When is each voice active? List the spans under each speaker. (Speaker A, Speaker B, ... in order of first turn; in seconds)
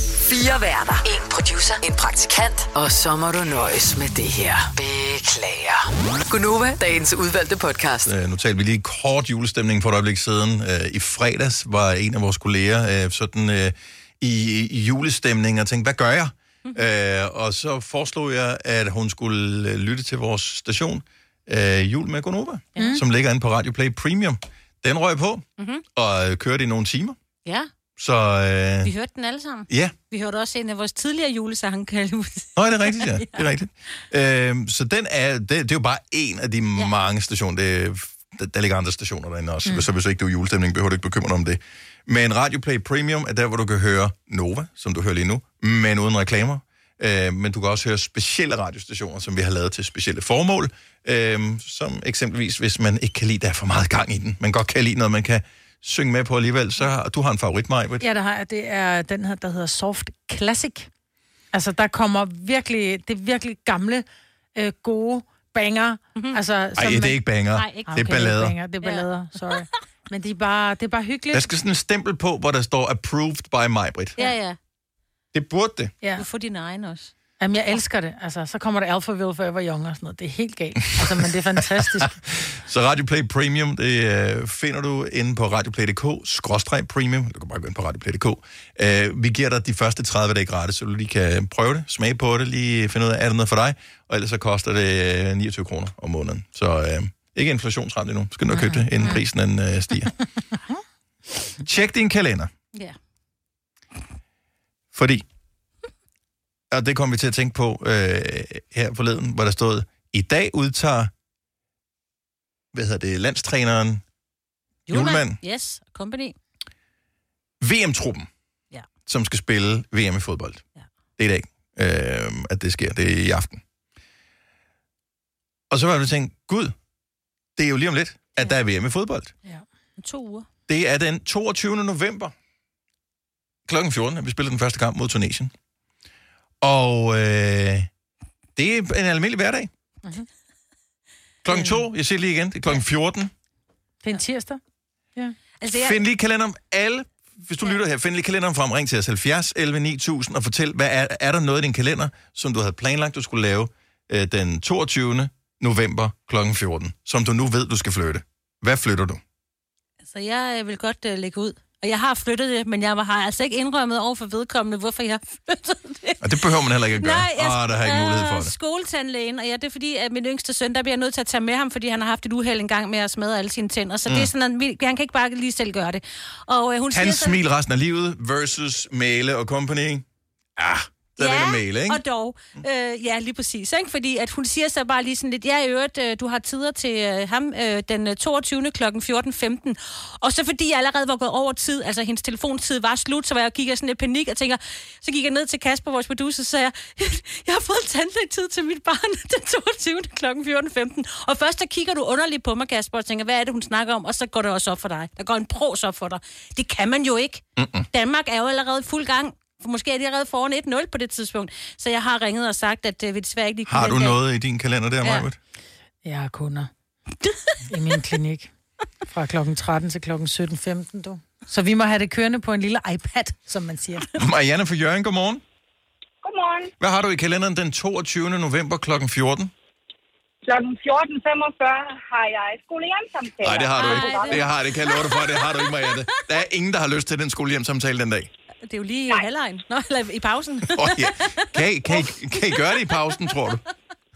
Speaker A: 0.2-8.1
Speaker B: 8.1-27.2, 28.0-28.9, 29.7-29.9, 32.6-58.0, 66.8-68.6, 71.3-74.2, 75.3-75.9, 81.0-100.1, 101.6-102.5, 104.9-105.2, 106.7-111.1, 112.7-114.0, 114.9-115.4, 117.6-118.3, 119.1-120.6, 121.2-123.6, 125.7-126.7, 127.6-129.3, 130.7-132.3, 133.7-135.5, 136.6-137.9, 138.6-139.7, 141.4-143.3, 145.7-159.2, 166.2-168.5, 174.1-174.3, 176.9-180.1, 180.6-182.0, 207.6-207.9, 213.7-215.4, 224.1-225.4, 226.8-229.5, 233.4-238.3, 240.7-243.6
Speaker C: 22.8-23.0, 58.0-60.9, 61.5-67.2, 67.9-71.5, 77.4-82.2, 98.5-99.2, 141.5-141.8, 144.0-144.6, 216.0-216.7, 217.7-218.5, 219.1-224.1
Speaker D: 22.8-23.0, 25.6-25.8, 27.4-27.7, 28.8-33.5, 67.5-68.1, 68.8-69.7, 74.2-74.6, 76.2-77.1, 114.9-116.3, 130.0-130.5, 145.6-146.0, 160.0-166.3, 167.0-177.4, 181.2-214.2, 217.2-217.6, 233.7-236.2, 238.6-242.1
Speaker E: 226.2-226.7, 230.4-234.4